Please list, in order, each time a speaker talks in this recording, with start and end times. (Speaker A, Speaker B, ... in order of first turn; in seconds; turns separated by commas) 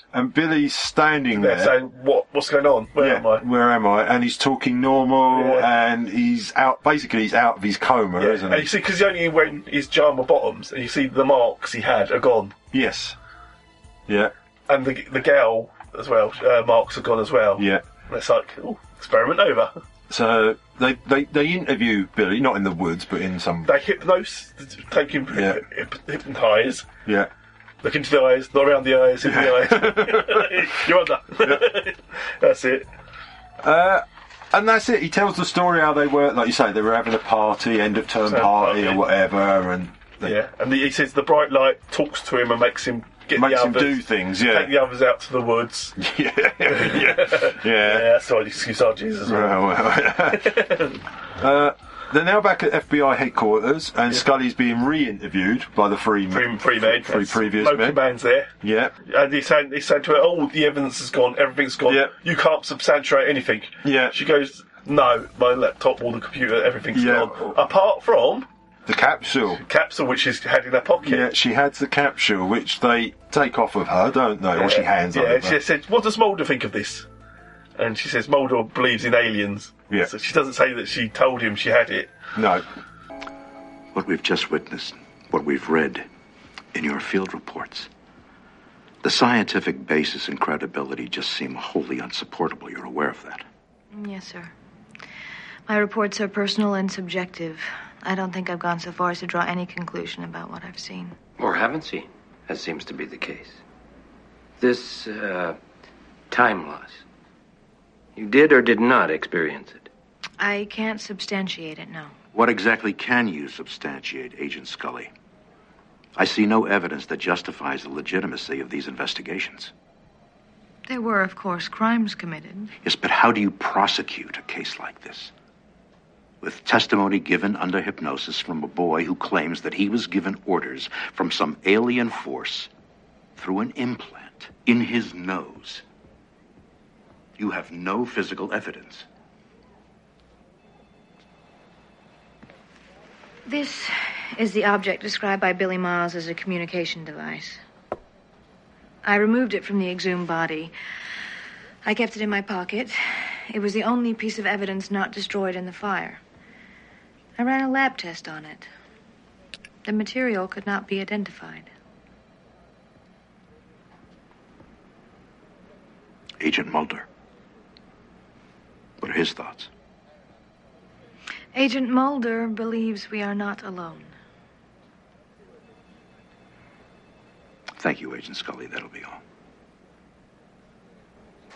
Speaker A: 0.1-1.7, Speaker B: 1.3-3.4, Speaker A: 3.0-8.7, Speaker B: 5.3-5.7, Speaker B: 8.2-12.5, Speaker A: 12.7-13.2, Speaker A: 14.1-14.3, Speaker B: 14.7-19.7, Speaker A: 17.6-17.8, Speaker A: 20.1-23.8, Speaker B: 23.6-26.9, Speaker A: 25.3-25.6, Speaker B: 27.8-32.9, Speaker A: 29.2-30.8, Speaker A: 33.6-40.3, Speaker B: 38.3-39.0, Speaker B: 40.2-46.0, Speaker A: 43.3-44.7, Speaker A: 46.0-48.1, Speaker B: 46.6-49.5, Speaker A: 49.2-50.6, Speaker B: 50.3-51.0, Speaker A: 51.4-58.0, Speaker B: 56.3-58.5, Speaker A: 58.6-58.9, Speaker B: 59.0-68.5, Speaker A: 61.9-62.1, Speaker A: 63.8-64.2, Speaker A: 66.9-67.6, Speaker A: 68.8-69.6, Speaker B: 69.6-71.3, Speaker A: 71.0-75.6, Speaker B: 74.5-77.1, Speaker B: 77.8-82.1, Speaker A: 82.3-82.6, Speaker C: 83.9-86.0, Speaker C: 86.7-87.9, Speaker C: 89.0-93.5, Speaker D: 93.9-94.5, Speaker D: 95.7-101.2, Speaker E: 101.4-103.6, Speaker E: 104.6-105.6, Speaker E: 106.3-107.0, Speaker E: 108.2-109.9, Speaker D: 110.4-112.1, Speaker C: 112.3-115.1, Speaker C: 116.2-119.7, Speaker D: 120.9-122.7, Speaker C: 122.8-125.3, Speaker C: 126.4-132.7, Speaker C: 133.4-135.8, Speaker C: 137.4-139.1, Speaker D: 143.4-147.6, Speaker D: 149.0-150.7, Speaker D: 151.8-156.2, Speaker D: 157.4-158.7, Speaker D: 159.8-161.7, Speaker C: 166.4-167.1, Speaker C: 169.0-169.7, Speaker D: 171.5-174.1, Speaker C: 177.8-179.2